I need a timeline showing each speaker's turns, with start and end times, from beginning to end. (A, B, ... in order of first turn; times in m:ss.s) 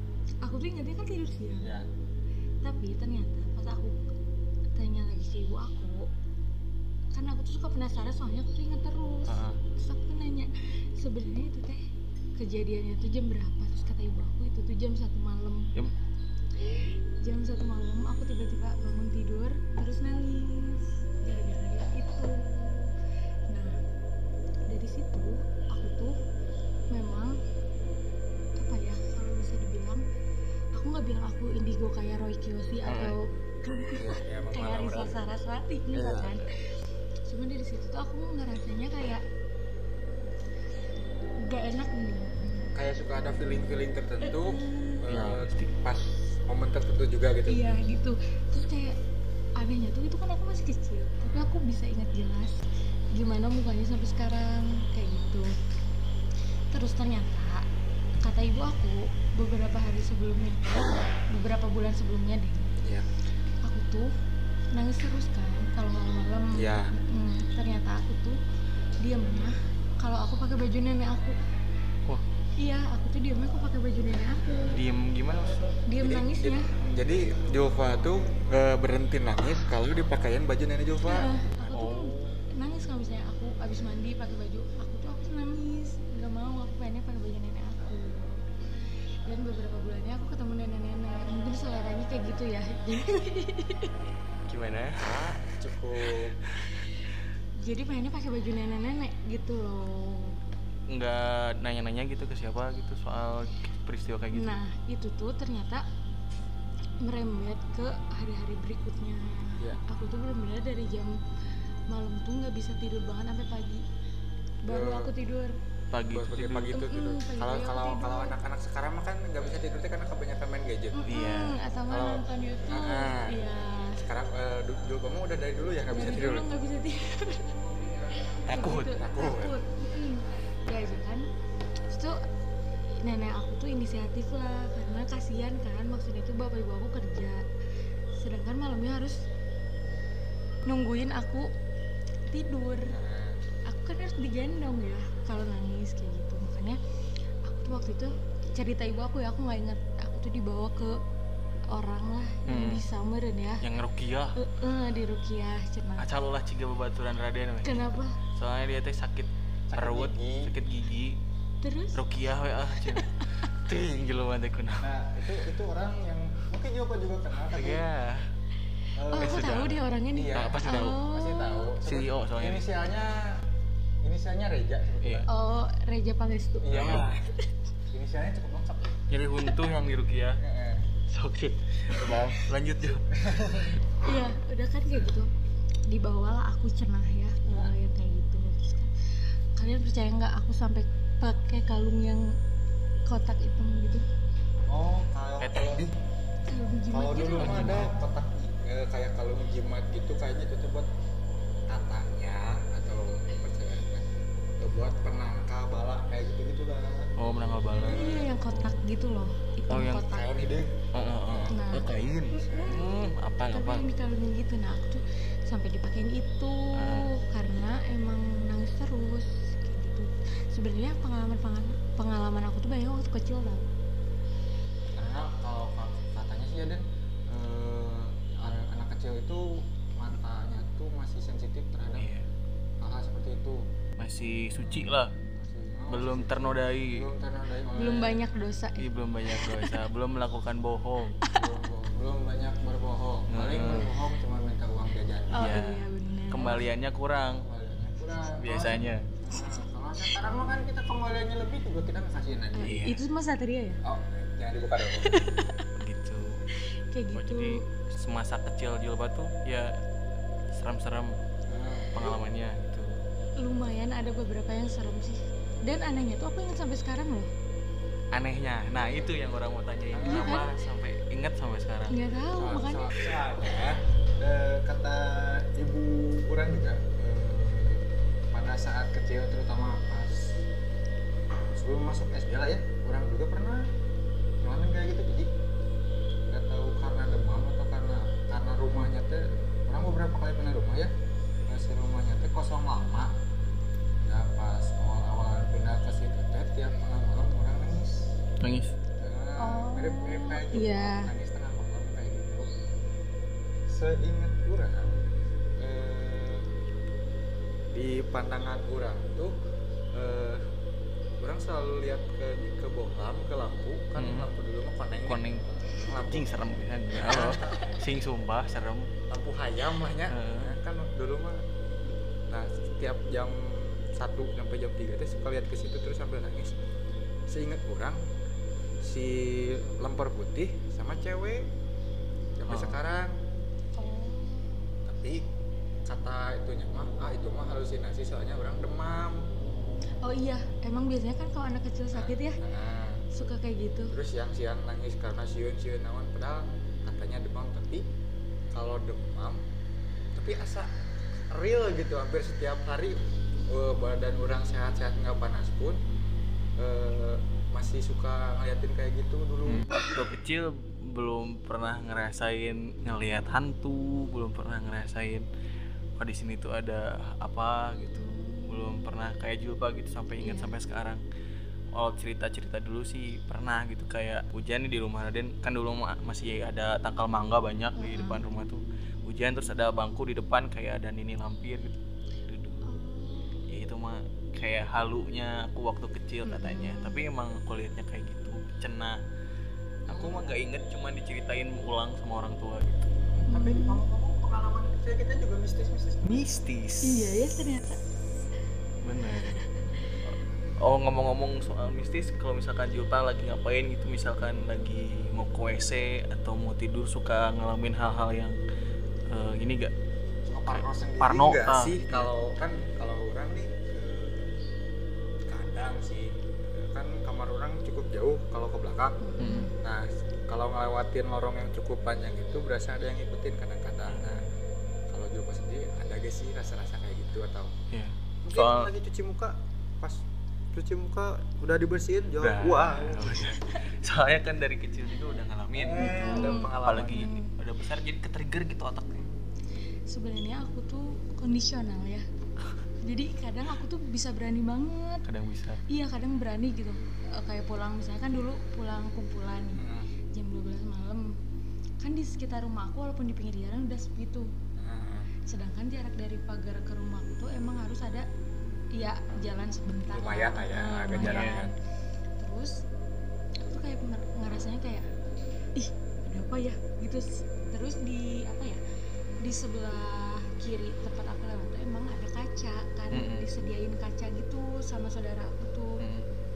0:00.4-0:01.7 A
0:01.6-0:01.9 B
0:02.6-0:04.0 A
0:04.7-0:06.1 A
0:07.1-0:11.8 A
0:09.3-0:09.6 C
0:12.4-0:15.7 A
0:16.6-0:16.9 B
0:17.2-0:22.9 A
0:23.5-0:23.8 A
0:24.7-0:26.2 A
0:26.9-0:27.4 A
0:28.6-0:30.0 A
0:30.7-0:36.5 A
0:32.8-0:33.2 C
0:34.0-0:35.2 B
0:35.9-0:36.4 B
0:37.3-0:39.2 A
0:41.4-0:42.7 A
0:42.7-0:47.6 B
0:44.2-0:45.0 A
0:45.0-0:45.7 C
0:47.5-0:49.0 A
0:49.6-0:55.5 A
0:56.7-0:57.7 A
0:58.2-1:02.7 A
1:02.8-1:03.1 B
1:03.6-1:04.1 A
1:04.7-1:08.4 A
1:06.5-1:06.9 B
1:09.0-1:11.4 A
1:12.6-1:14.8 A
1:14.7-1:15.6 C
1:15.9-1:16.7 A
1:16.0-1:21.3 B
1:21.0-1:28.4 A
1:21.6-1:22.4 C
1:29.2-1:33.9 A
1:34.5-1:35.1 C
1:35.0-1:36.4 B
1:37.6-1:40.4 A
1:40.9-1:44.5 C
1:44.3-1:45.8 A
1:47.0-1:51.2 A
1:51.9-1:53.8 A
1:54.6-1:55.6 A
1:54.7-1:55.1 B
1:55.9-1:56.8 C
1:56.1-2:01.0 B
1:56.7-1:58.4 A
2:00.9-2:04.0 A
2:01.1-2:01.6 C
2:01.9-2:03.4 B
2:04.0-2:06.5 B
2:05.9-2:07.7 A
2:08.3-2:11.3 A
2:08.5-2:09.0 C
2:08.9-2:09.6 B
2:11.9-2:12.2 A
2:13.0-2:17.4 A
2:18.2-2:19.2 A
2:20.6-2:21.5 A
2:22.3-2:23.0 A
2:22.8-2:23.4 B
2:23.6-2:26.8 A
2:27.4-2:31.0 A
2:31.7-2:33.6 A
2:32.5-2:32.9 C
2:33.6-2:34.4 C
2:34.4-2:36.1 A
2:36.0-2:41.2 C
2:37.6-2:38.2 A
2:39.7-2:40.5 B
2:41.6-2:42.0 A
2:41.9-2:44.9 C
2:42.8-2:43.4 A
2:44.8-2:47.8 B
2:47.5-2:48.3 C
2:48.9-2:53.4 B
2:49.1-2:51.7 A
2:49.2-2:51.0 C
2:51.8-2:52.6 C
2:54.0-2:55.3 B
2:55.3-2:57.5 A
2:56.6-2:57.3 B
2:56.7-2:57.1 C
2:57.9-2:59.0 B
2:59.1-3:00.4 C
3:00.4-3:01.0 B
3:01.1-3:03.1 C
3:03.1-3:03.8 B
3:04.0-3:05.3 A
3:05.8-3:08.9 A
3:07.4-3:07.7 B
3:09.6-3:12.4 A
3:13.0-3:14.0 A
3:14.7-3:15.9 B
3:15.4-3:15.8 C
3:16.5-3:17.8 A
3:16.9-3:20.9 B
3:17.3-3:17.9 C
3:21.7-3:24.1 B
3:24.6-3:27.1 B
3:27.2-3:28.8 C
3:27.7-3:28.3 B
3:27.8-3:30.3 A
3:29.7-3:30.1 C
3:30.0-3:32.8 B
3:30.9-3:31.6 C
3:31.5-3:43.7 A
3:32.6-3:33.9 C
3:36.7-3:37.1 C
3:44.9-3:52.1 B
3:52.0-3:52.2 C
3:52.8-3:53.6 B
3:54.0-3:55.1 C
3:55.3-3:58.2 B
3:55.9-3:57.0 C
3:57.7-3:59.8 A
3:58.8-4:01.2 C
4:01.3-4:05.6 B
4:03.3-4:03.9 C
4:05.3-4:06.7 A
4:05.3-4:07.4 C
4:07.4-4:12.8 B
4:08.3-4:09.1 C
4:12.6-4:13.8 A
4:12.6-4:13.0 C
4:13.8-4:15.4 B
4:15.0-4:15.7 A
4:15.7-4:16.4 C
4:16.9-4:17.6 A
4:17.1-4:19.7 C
4:20.5-4:21.2 C
4:21.5-4:22.2 B
4:21.9-4:23.0 C
4:23.4-4:27.3 A
4:28.1-4:32.0 C
4:29.9-4:30.4 B
4:30.0-4:30.5 A
4:31.9-4:33.0 A
4:32.3-4:40.4 B
4:41.5-4:43.7 B
4:44.4-4:45.3 B
4:46.3-4:50.9 B
4:51.5-4:53.2 B
4:54.0-4:58.1 B
4:58.4-4:58.7 C
4:59.0-5:02.5 B
4:59.4-5:01.1 A
5:03.7-5:05.0 B
5:05.6-5:06.5 B
5:07.7-5:09.3 B
5:09.9-5:10.4 B
5:11.2-5:15.2 B
5:14.0-5:14.3 C
5:15.0-5:18.9 C
5:15.8-5:16.3 B
5:16.9-5:17.7 B
5:19.1-5:21.4 B
5:20.1-5:20.5 C
5:22.3-5:26.5 B
5:27.3-5:28.0 B
5:28.8-5:31.5 B
5:32.4-5:33.2 B
5:32.5-5:32.8 C
5:33.7-5:34.6 A
5:34.8-5:35.3 B
5:35.8-5:39.3 B
5:40.0-5:42.4 A
5:41.9-5:43.1 B
5:43.1-5:43.9 A
5:43.9-5:47.9 B
5:48.5-5:49.4 B
5:50.1-5:50.7 B
5:51.3-5:55.8 B
5:56.6-5:59.7 B
5:59.4-6:05.2 C
6:06.0-6:11.0 C
6:08.0-6:08.9 A
6:10.2-6:10.6 A
6:11.7-6:22.6 C
6:17.8-6:18.2 A
6:22.6-6:23.4 A
6:23.5-6:29.0 C
6:26.3-6:27.0 A
6:29.9-6:32.9 C
6:29.9-6:30.2 B
6:33.2-6:36.3 B
6:33.3-6:33.8 A
6:36.0-6:37.2 C
6:36.8-6:37.8 A
6:38.8-6:39.4 C
6:40.0-6:48.4 C
6:49.1-6:49.7 C
6:50.3-6:54.3 B
6:50.5-6:52.1 C
6:55.2-6:59.0 B
6:59.0-6:59.5 A
6:59.2-6:59.5 C
6:59.6-7:04.1 B
7:03.9-7:04.3 C
7:04.9-7:07.6 B
7:07.7-7:08.7 C
7:08.2-7:13.4 B
7:12.2-7:19.1 C
7:15.5-7:17.1 B
7:15.8-7:17.3 A
7:19.9-7:22.0 A
7:22.8-7:25.0 A
7:25.0-7:25.6 C
7:25.7-7:31.1 A
7:29.5-7:29.9 B
7:31.8-7:34.3 A
7:34.6-7:35.1 B
7:35.2-7:38.1 A
7:38.7-7:41.5 A
7:39.9-7:41.5 B
7:40.9-7:41.5 C
7:42.2-7:42.6 A
7:43.4-7:44.9 A
7:45.5-7:48.6 A
7:49.2-7:55.8 A
7:52.9-7:53.2 C
7:55.8-7:56.0 C